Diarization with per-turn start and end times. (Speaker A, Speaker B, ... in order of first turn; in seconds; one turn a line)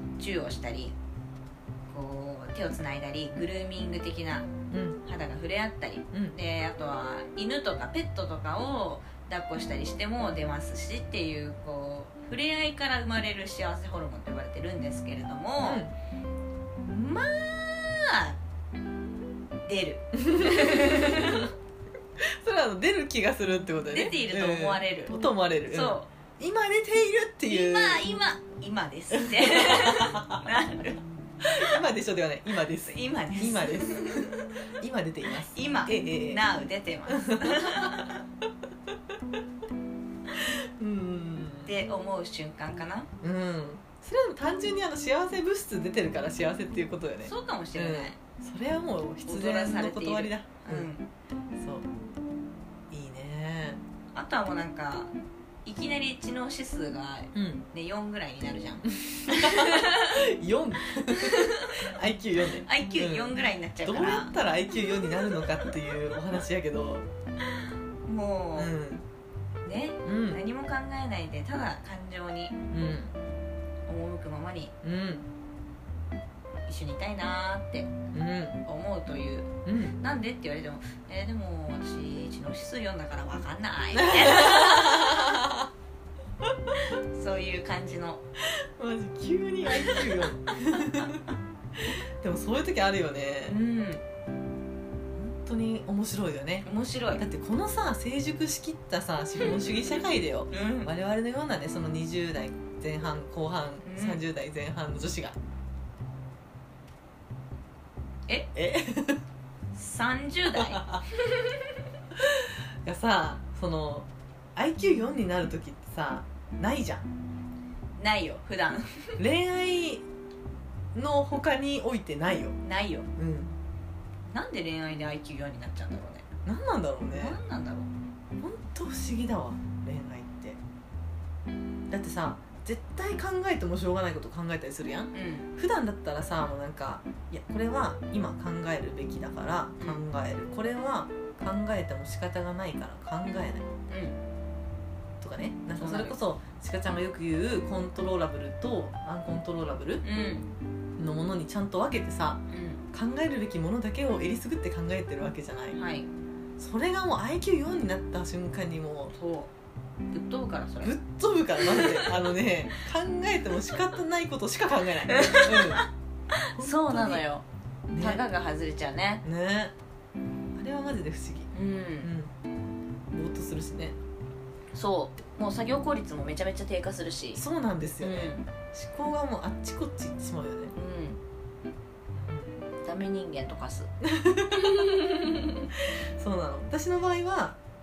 Speaker A: 0.2-0.9
Speaker A: 1.9-4.5
Speaker B: 4.7-5.0
Speaker A: 5.0-15.8
Speaker B: 15.6-15.9
Speaker A: 16.8-18.4
Speaker A: 19.6-21.5
Speaker B: 20.1-21.5
Speaker B: 22.2-28.0
Speaker A: 23.9-26.1
Speaker A: 27.5-31.0
Speaker B: 29.1-30.4
Speaker B: 31.4-36.4
Speaker A: 32.8-34.5
Speaker A: 35.5-38.2
Speaker B: 37.1-38.1
Speaker B: 40.3-41.7
Speaker A: 41.6-43.1
Speaker B: 43.2-50.9
Speaker A: 47.2-48.2
Speaker A: 49.3-51.1
Speaker B: 51.6-51.9
Speaker B: 52.9-53.8
Speaker A: 54.1-55.1
Speaker A: 55.6-60.2
Speaker B: 57.3-57.6
Speaker B: 58.9-67.1
Speaker A: 61.1-61.8
Speaker A: 62.6-64.3
Speaker A: 68.0-68.7
Speaker B: 68.5-69.0
Speaker A: 69.6-72.6
Speaker B: 70.0-70.4
Speaker B: 72.7-73.1
Speaker A: 73.9-74.7
Speaker B: 74.8-75.3
Speaker A: 76.7-77.9
Speaker B: 78.1-78.6
Speaker A: 78.6-85.4
Speaker B: 79.7-80.0
Speaker B: 83.9-85.7
Speaker B: 86.4-86.8
Speaker A: 86.8-88.2
Speaker B: 88.4-93.6
Speaker A: 89.7-91.1
Speaker A: 93.5-94.0
Speaker B: 95.2-96.7
Speaker A: 96.6-97.2
Speaker B: 97.2-105.3
Speaker A: 99.4-100.0
Speaker A: 100.5-100.9
Speaker A: 103.8-104.2
Speaker B: 108.5-109.2
Speaker A: 109.7-111.7
Speaker B: 110.5-111.0
Speaker B: 112.1-117.1
Speaker A: 118.0-119.2
Speaker B: 119.2-120.0
Speaker B: 120.9-122.6
Speaker A: 122.6-123.1
Speaker B: 123.2-123.6
Speaker A: 124.3-126.3
Speaker B: 126.5-127.4
Speaker A: 127.1-127.9
Speaker B: 128.4-130.6
Speaker B: 131.9-143.7
Speaker A: 135.1-135.5
Speaker A: 143.9-144.2
Speaker B: 145.2-150.0
Speaker A: 145.8-146.2
Speaker A: 150.0-150.5
Speaker B: 151.0-155.8
Speaker A: 152.5-152.8
Speaker A: 155.7-156.1
Speaker B: 156.6-159.1
Speaker A: 159.1-159.5
Speaker A: 160.1-160.9
Speaker B: 160.8-165.8
Speaker A: 161.6-162.2
Speaker A: 165.1-167.4
Speaker B: 166.6-167.2
Speaker B: 167.9-168.2
Speaker A: 168.0-169.2
Speaker B: 169.2-169.7
Speaker B: 170.6-172.3
Speaker A: 171.5-172.1
Speaker B: 173.1-173.9
Speaker A: 174.7-177.4
Speaker B: 177.3-180.7
Speaker A: 178.0-178.4
Speaker A: 180.7-181.2
Speaker B: 182.1-182.6
Speaker A: 182.8-183.9
Speaker B: 184.0-185.0
Speaker A: 184.5-185.7
Speaker B: 185.7-187.6